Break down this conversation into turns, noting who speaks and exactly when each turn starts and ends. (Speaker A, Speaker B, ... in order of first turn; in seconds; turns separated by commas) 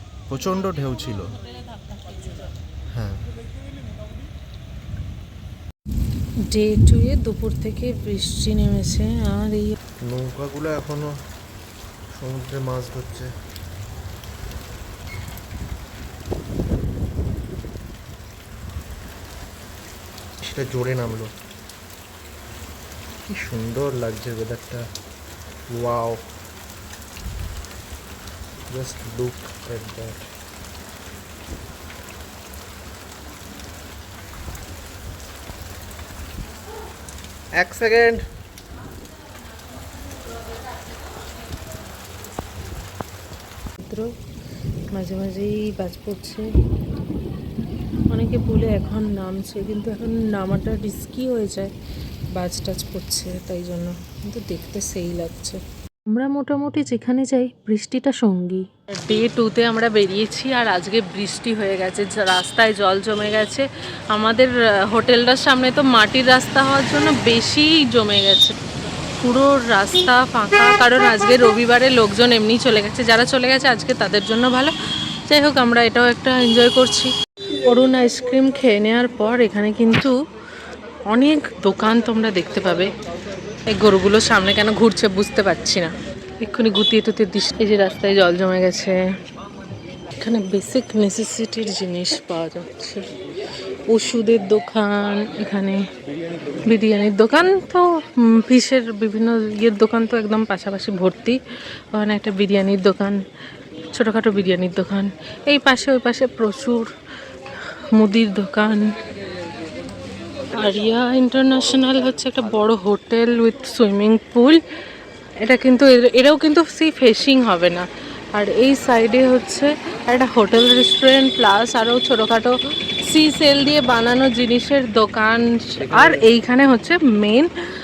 Speaker A: 0.3-1.3, Speaker B: 0.5-2.5, Speaker A: 2.9-3.2, Speaker B: 6.5-9.8, Speaker A: 10.1-11.1, Speaker A: 12.1-13.3, Speaker A: 20.4-21.3, Speaker A: 23.3-24.8, Speaker A: 25.9-26.2, Speaker A: 28.8-30.1, Speaker A: 37.6-38.2, Speaker B: 43.9-44.1, Speaker B: 44.9-46.5, Speaker B: 48.1-51.7, Speaker B: 52.3-55.6, Speaker C: 56.1-58.6, Speaker B: 59.0-68.5, Speaker B: 69.2-74.7, Speaker B: 75.3-80.1, Speaker B: 81.1-82.9, Speaker B: 83.7-89.0, Speaker B: 90.2-93.1, Speaker B: 93.9-95.8, Speaker B: 96.7-101.4, Speaker B: 101.9-103.2, Speaker B: 103.9-106.9, Speaker B: 107.9-108.9, Speaker B: 110.5-114.6, Speaker B: 115.4-127.5